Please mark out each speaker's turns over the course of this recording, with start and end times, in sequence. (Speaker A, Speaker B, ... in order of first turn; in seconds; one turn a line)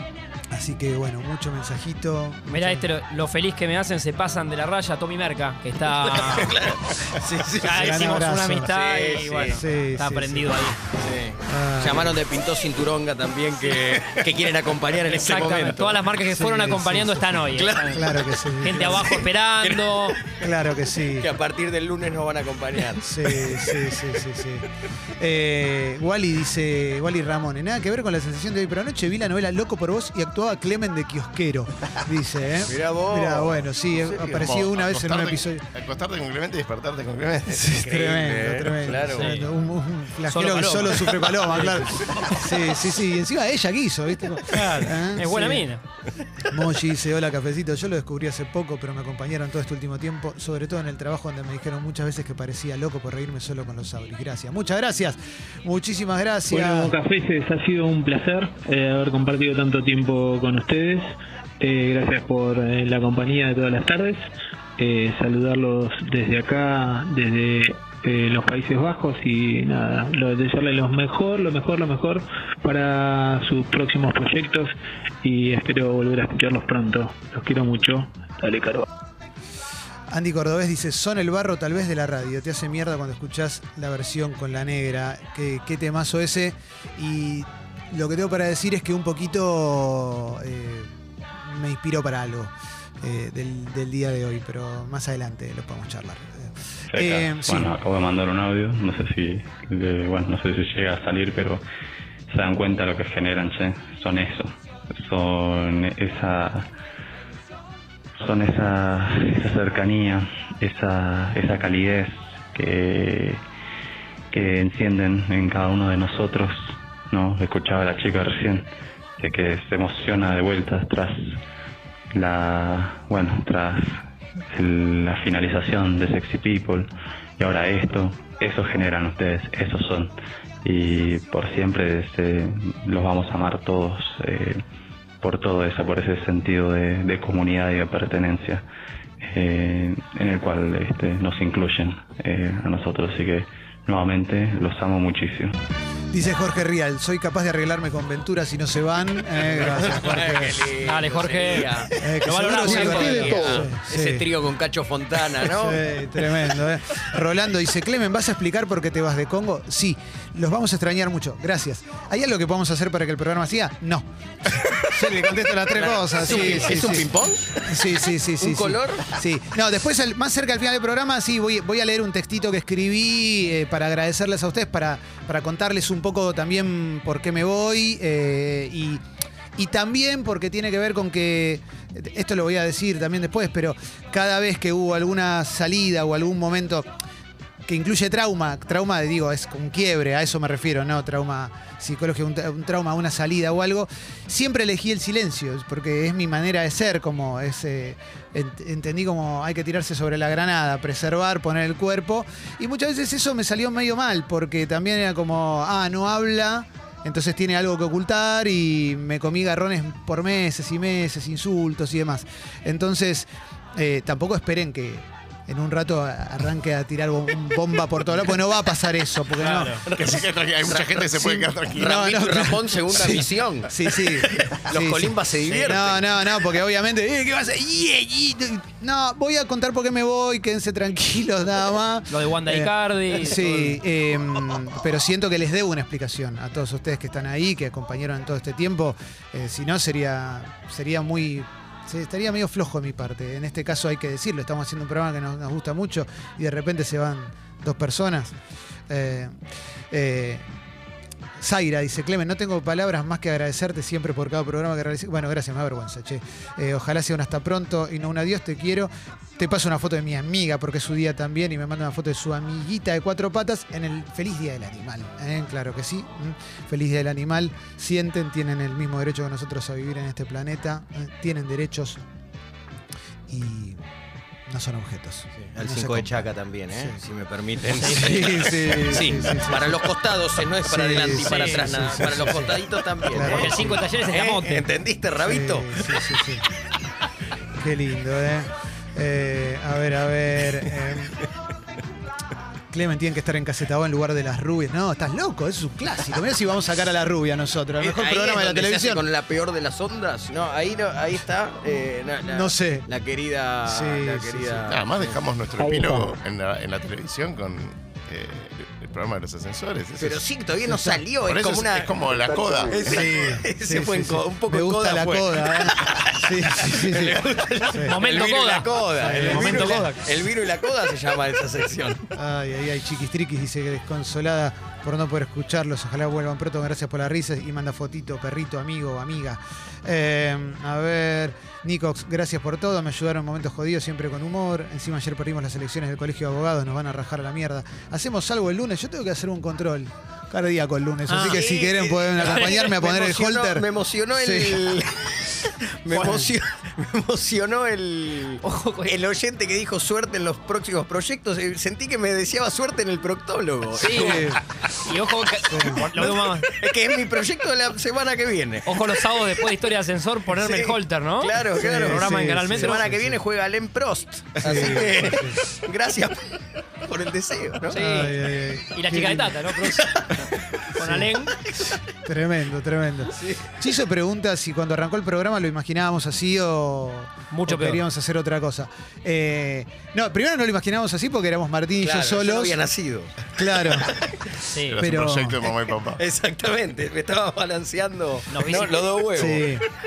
Speaker A: 0.5-2.8
Speaker B: 2.5-6.6
Speaker C: 6.1-8.0
Speaker B: 7.6-10.8
Speaker A: 7.6-8.7
Speaker C: 8.7-9.6
Speaker A: 9.5-10.6
Speaker C: 11.0-16.0
Speaker A: 11.5-12.2
Speaker B: 15.1-20.2
Speaker A: 16.3-19.0
Speaker C: 17.5-20.2
Speaker A: 20.4-21.3
Speaker C: 21.2-23.9
Speaker A: 23.0-24.7
Speaker A: 25.2-35.6
Speaker C: 32.6-34.3
Speaker D: 34.3-37.6
Speaker A: 37.5-45.6
Speaker C: 37.6-39.3
Speaker B: 39.2-39.5
Speaker B: 40.3-42.2
Speaker C: 41.6-42.2
Speaker B: 44.5-45.8
Speaker A: 46.5-56.9
Speaker E: 61.9-63.7
Speaker E: 65.0-67.5
Speaker E: 69.7-70.4
Speaker E: 71.3-72.1
Speaker E: 75.5-75.9
Speaker E: 76.8-77.1
Speaker A: 80.1-97.7
Speaker F: 96.9-101.6
Speaker F: 102.3-106.7
Speaker F: 108.2-113.4
Speaker F: 114.3-118.7
Speaker F: 119.2-121.2
Speaker F: 122.1-130.1
Speaker F: 130.6-134.6
Speaker F: 135.2-138.6
Speaker F: 139.2-145.5
Speaker A: 146.1-150.6
Speaker C: 149.5-151.9
Speaker B: 150.8-153.6
Speaker A: 152.0-154.2
Speaker C: 152.6-156.3
Speaker A: 155.4-167.0
Speaker C: 165.7-169.1
Speaker B: 166.3-166.8
Speaker A: 167.7-179.0
Speaker A: 179.6-186.9
Speaker A: 187.7-219.8
Speaker B: 219.4-219.8
Speaker C: 219.8-226.2
Speaker D: 220.0-221.9
Speaker A: 221.2-248.3
Speaker B: 225.4-225.8
Speaker B: 232.1-233.8
Speaker A: 248.9-249.3
Speaker A: 249.9-250.4
Speaker A: 251.4-272.0
Speaker A: 273.3-273.8
Speaker A: 274.5-277.0
Speaker C: 275.3-286.0
Speaker A: 277.8-279.9
Speaker B: 277.8-278.3
Speaker A: 280.6-283.8
Speaker B: 281.2-281.7
Speaker B: 283.2-284.6
Speaker A: 285.2-286.4
Speaker A: 287.6-291.2
Speaker A: 292.7-299.0
Speaker C: 297.8-305.2
Speaker A: 302.2-302.9
Speaker A: 303.6-304.6
Speaker D: 304.6-310.2
Speaker C: 310.0-322.1
Speaker A: 310.6-311.0
Speaker D: 311.2-312.9
Speaker A: 312.8-317.2
Speaker A: 317.7-318.0
Speaker B: 317.8-320.0
Speaker A: 319.0-319.8
Speaker A: 322.1-343.6
Speaker B: 341.1-341.4
Speaker C: 341.2-354.4
Speaker B: 342.2-342.6
Speaker A: 344.2-344.6
Speaker A: 345.9-346.3
Speaker B: 348.4-348.9
Speaker B: 353.8-356.5
Speaker A: 353.8-354.4
Speaker A: 355.5-355.8
Speaker C: 356.0-359.0
Speaker B: 358.6-362.9
Speaker C: 360.3-366.2
Speaker A: 361.6-363.2
Speaker A: 364.4-365.4
Speaker C: 366.8-367.8
Speaker A: 367.7-369.3
Speaker B: 367.7-368.1
Speaker B: 368.7-370.0
Speaker C: 369.7-370.0
Speaker B: 370.7-371.4
Speaker A: 370.8-371.1
Speaker A: 372.0-382.6
Speaker C: 373.1-373.5
Speaker B: 377.3-377.8
Speaker C: 381.8-384.1
Speaker A: 383.4-383.9
Speaker B: 384.5-384.8
Speaker D: 384.6-386.0
Speaker A: 384.8-385.4
Speaker C: 385.4-389.6
Speaker B: 388.3-388.9
Speaker A: 389.1-389.6